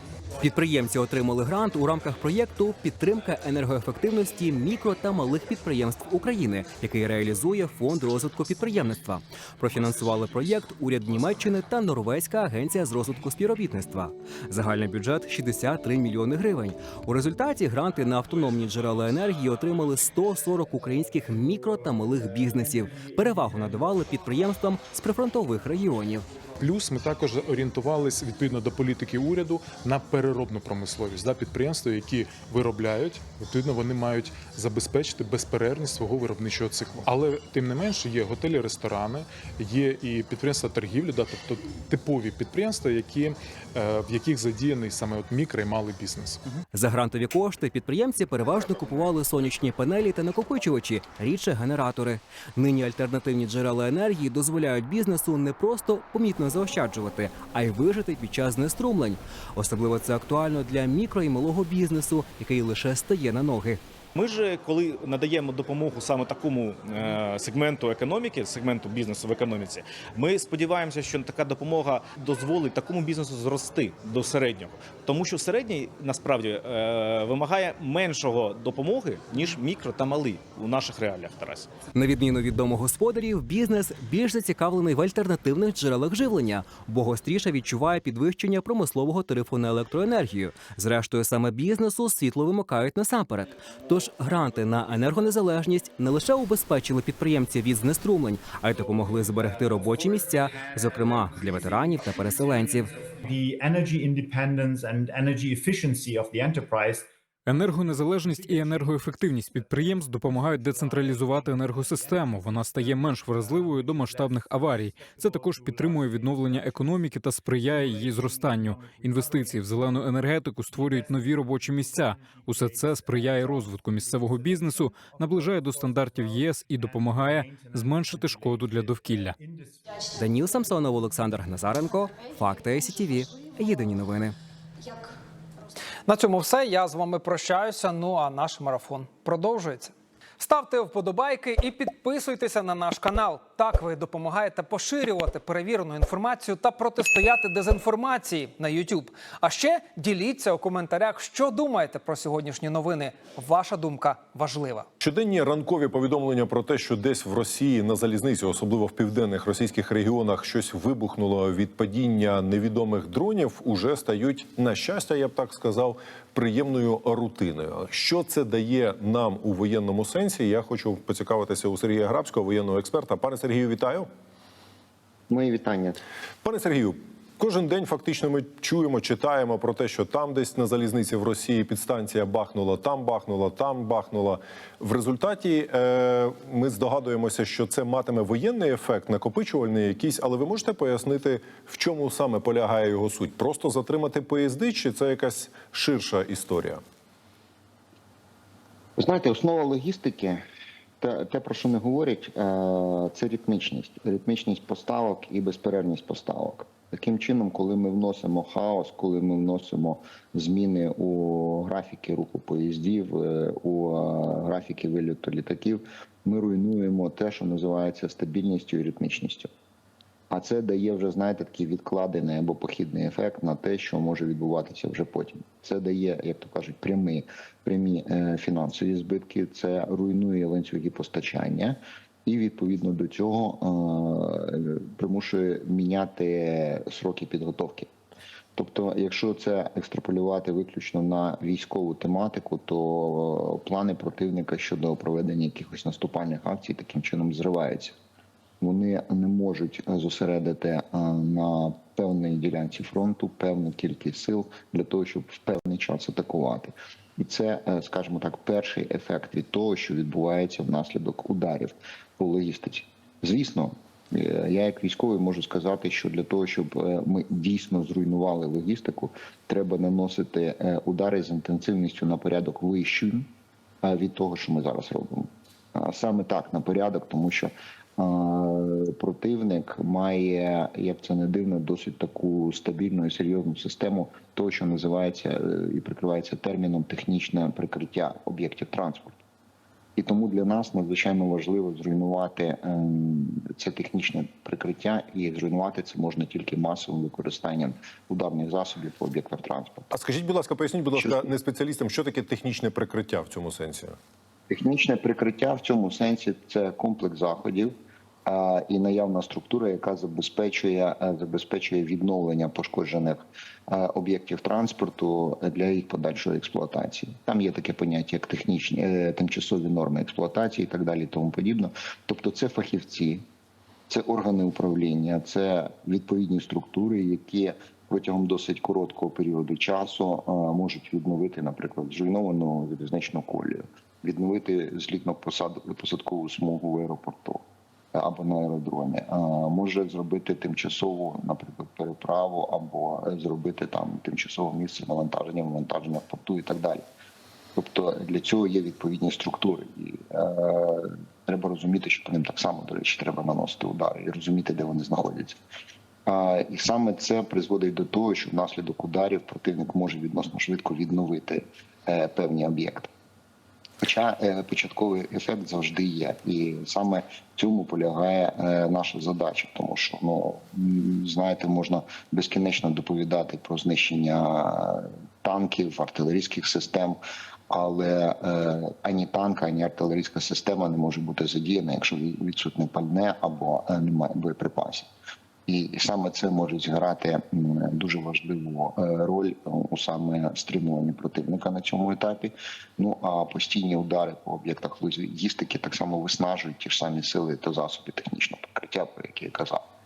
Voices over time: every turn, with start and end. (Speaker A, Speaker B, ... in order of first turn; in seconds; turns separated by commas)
Speaker A: 0.4-26.3, Speaker B: 26.6-46.4, Speaker A: 46.7-63.8, Speaker C: 64.2-81.7, Speaker A: 81.9-102.9, Speaker D: 103.2-117.0, Speaker E: 107.5-129.3, Speaker D: 117.6-129.9, Speaker A: 130.1-134.4, Speaker F: 136.1-154.9, Speaker G: 155.0-174.1, Speaker H: 175.3-176.0, Speaker G: 176.4-196.8, Speaker H: 199.0-200.4, Speaker H: 201.0-219.5, Speaker H: 220.3-237.9, Speaker H: 238.6-248.0, Speaker H: 248.6-273.3, Speaker H: 273.8-289.2, Speaker H: 290.0-299.9, Speaker G: 299.9-304.0, Speaker H: 300.9-301.3, Speaker H: 304.5-323.3, Speaker H: 323.9-346.9, Speaker H: 347.6-355.4, Speaker H: 356.1-362.9, Speaker H: 363.8-377.0, Speaker H: 377.5-384.9, Speaker H: 385.5-399.6